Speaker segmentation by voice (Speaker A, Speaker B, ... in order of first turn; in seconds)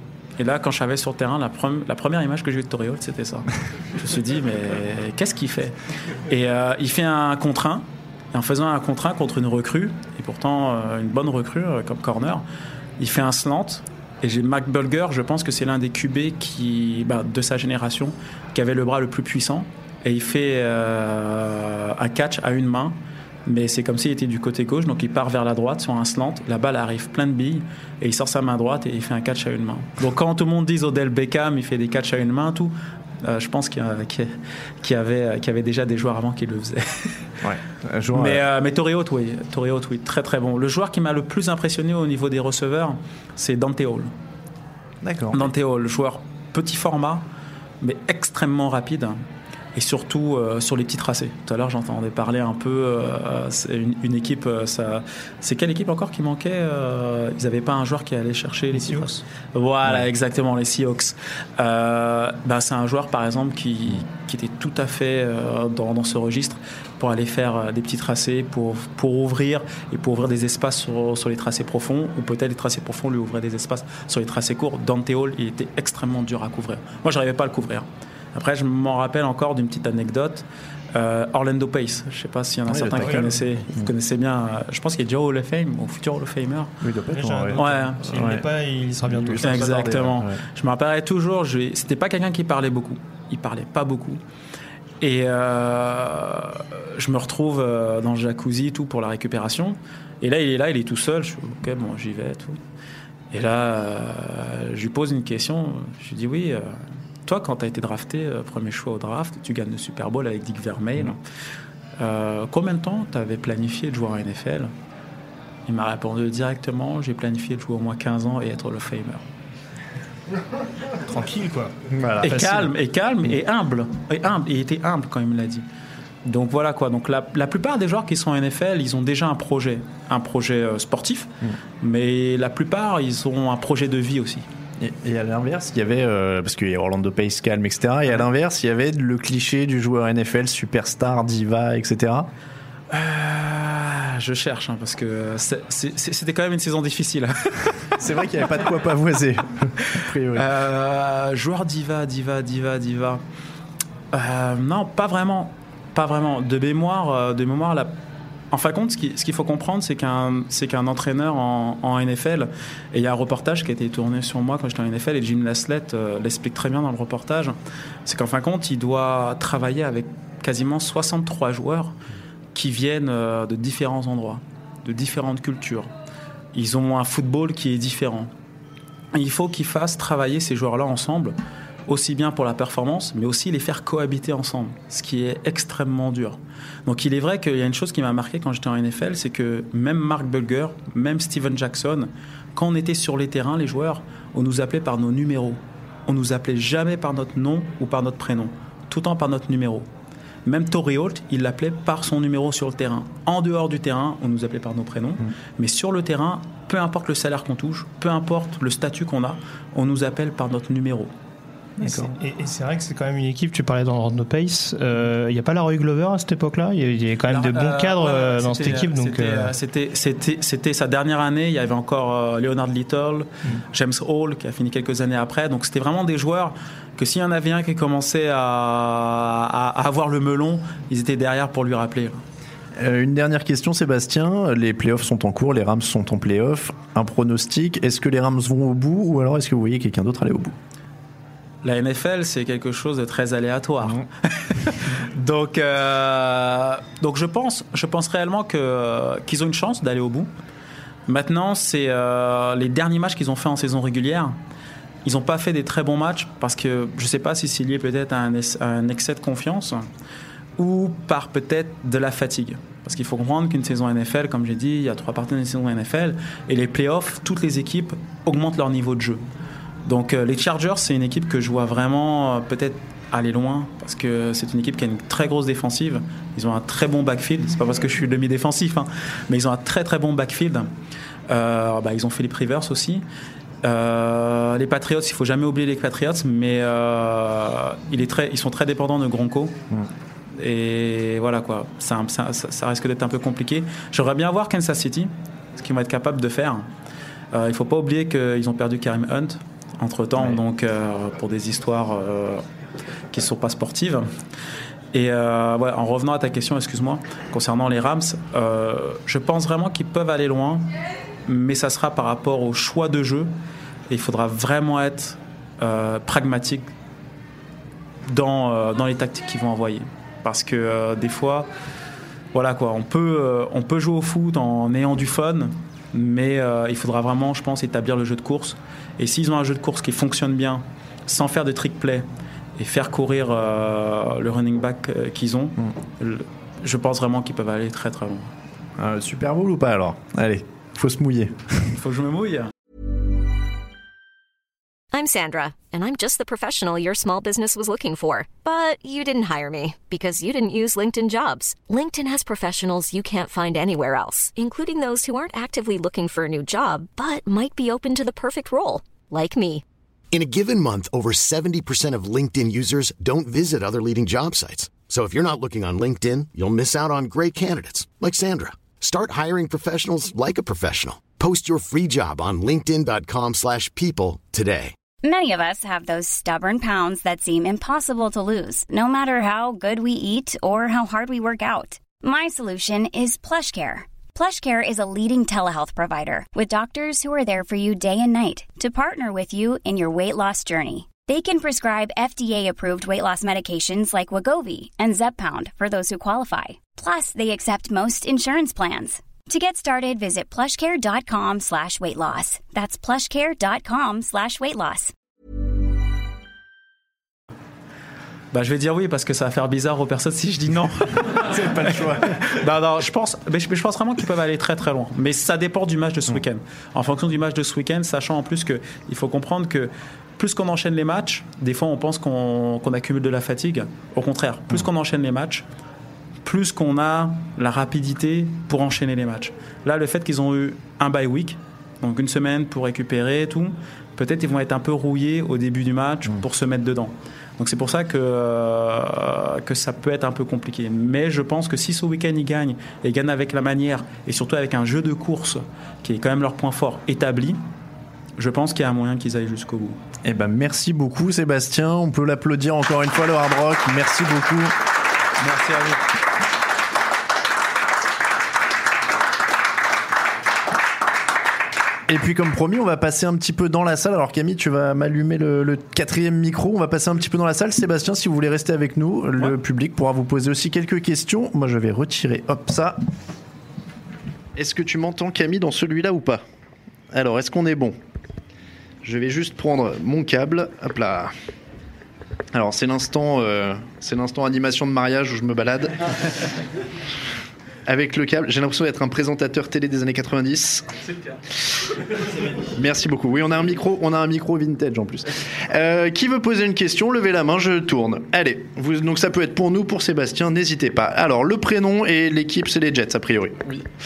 Speaker A: 0.4-5.7, 6.3-12.4, 13.0-22.9, 23.5-37.1, 38.1-44.1, 45.3-47.2, 47.8-49.2, 49.7-86.7, 87.5-88.0, 89.4-94.2, 95.0-102.6, 103.3-111.2, 112.0-114.7, 115.7-119.2, 122.2-125.6, 126.2-134.4, 142.9-147.9, 150.3-153.2, 154.1-157.9, 158.5-167.5, 168.1-171.9, 172.5-175.9, 176.5-178.3, 179.1-181.3, 181.9-199.9, 200.4-211.1, 217.3-232.2, 241.6-250.3, 251.1-254.3, 255.0-259.8, 260.6-269.2, 269.9-280.7, 281.3-283.0, 283.6-289.6, 290.4-296.7, 297.3-302.4, 303.1-304.1, 304.9-310.6, 311.2-313.3, 313.9-316.6, 318.1-321.5, 322.3-332.1, 332.6-338.3, 341.7-342.5, 408.3-411.3, 412.2-425.4, 426.2-447.4, 448.2-449.8, 455.2-455.8
Speaker B: 37.4-38.4, 45.0-45.5, 82.7-83.9, 86.8-88.5, 89.1-90.4, 121.9-122.5, 134.8-142.3, 148.0-150.5, 211.8-212.1, 232.8-240.5, 338.8-341.7, 411.1-412.2, 450.0-454.5, 461.9-472.8, 474.3-476.2, 476.9-477.8, 478.8-481.1, 482.3-486.1, 487.6-490.7, 492.5-503.5
Speaker C: 58.7-59.2, 87.1-89.7, 121.1-121.7, 122.3-122.7, 211.8-219.5
Speaker D: 344.9-359.6
Speaker E: 360.1-374.7
Speaker F: 375.0-404.9